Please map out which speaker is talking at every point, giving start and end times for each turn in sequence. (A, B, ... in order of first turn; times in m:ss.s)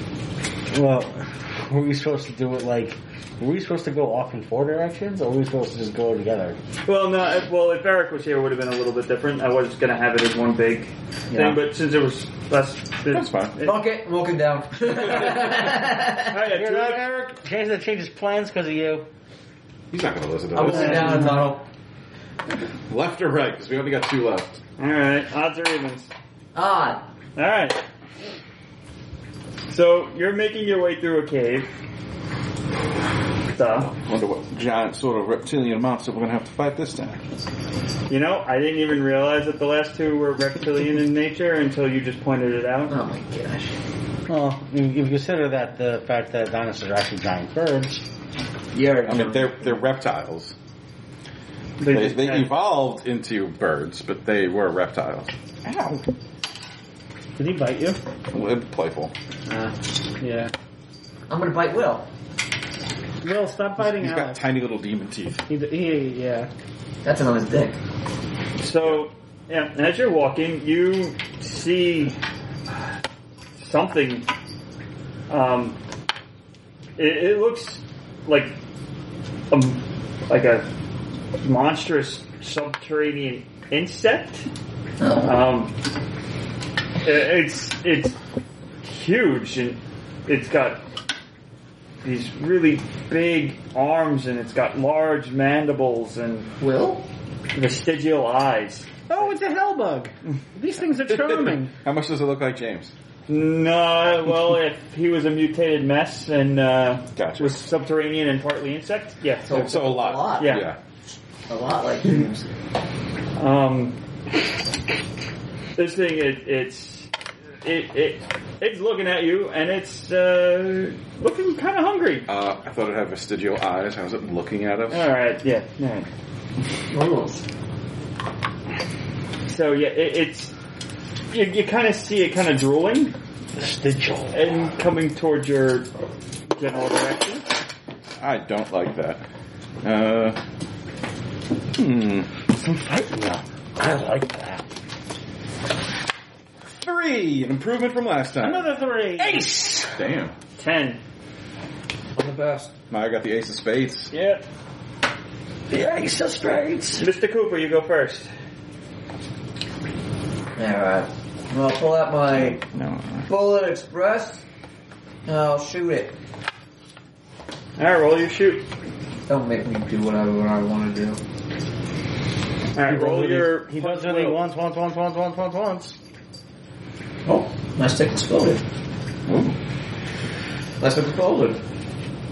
0:00.7-0:06.6 A
0:06.9-0:13.8 B
0:11.3-0:11.6 C
0:13.1-0:13.6 D
0:13.6-0:16.4 C
0:16.3-0:17.0 B
0:16.5-0:19.1 A
0:19.9-0:21.3 D
0:20.5-0:21.6 C
0:22.9-0:24.6 D
0:24.8-0:26.1 B
0:26.6-0:27.0 C
0:27.4-0:27.8 B
0:29.7-0:31.7 B
0:33.5-0:33.9 B
0:33.9-0:37.2 D
0:38.1-0:43.0 B
0:42.9-0:43.8 C
0:44.3-0:48.0 A
0:48.7-0:49.8 C
0:49.1-0:50.6 D
0:51.8-0:52.5 B
0:51.9-0:56.1 D
0:57.4-0:58.0 E
0:58.3-0:59.1 D
0:59.5-1:00.5 E
1:01.3-1:02.1 C
1:03.2-1:04.5 E
1:03.8-1:05.4 D
1:05.5-1:06.5 E
1:07.0-1:07.8 C
1:08.6-1:12.2 B
1:13.6-1:14.3 B
1:15.3-1:15.8 B
1:17.0-1:18.6 B
1:19.5-1:20.7 B
1:21.4-1:24.5 B
1:25.0-1:25.3 C
1:25.2-1:25.7 B
1:27.0-1:28.2 B
1:28.8-1:30.8 B
1:32.0-1:36.5 B
1:36.6-1:37.0 C
1:37.5-1:39.3 B
1:39.1-1:41.7 E
1:41.1-1:42.9 D
1:43.3-1:50.7 B
1:47.2-1:47.6 D
1:49.4-1:50.6 C
1:49.5-1:50.8 D
1:51.5-1:52.5 C
1:53.4-1:54.0 B
1:55.8-1:57.1 B
1:57.6-2:02.3 B
2:02.3-2:05.1 D
2:04.9-2:06.1 B
2:06.9-2:07.4 C
2:09.5-2:10.5 B
2:11.3-2:13.2 B
2:13.6-2:14.5 A
2:14.3-2:15.9 B
2:16.5-2:17.5 B
2:18.2-2:19.2 D
2:19.8-2:20.4 D
2:21.8-2:22.3 D
2:22.6-2:24.6 A
2:26.7-2:28.7 D
2:28.4-2:29.5 E
2:29.2-2:30.0 A
2:30.0-2:30.3 D
2:30.6-2:31.0 B
2:32.2-2:32.7 C
2:32.9-2:34.1 D
2:34.1-2:34.4 B
2:35.7-2:37.1 A
2:37.0-2:38.3 B
2:40.6-2:42.6 C
2:42.4-2:43.3 D
2:43.3-2:44.4 C
2:45.2-2:46.2 C
2:47.8-2:48.6 B
2:49.3-2:51.2 C
2:52.7-2:54.4 B
2:52.8-2:56.0 A
2:57.2-2:58.6 C
2:59.3-2:59.6 D
3:00.8-3:01.6 C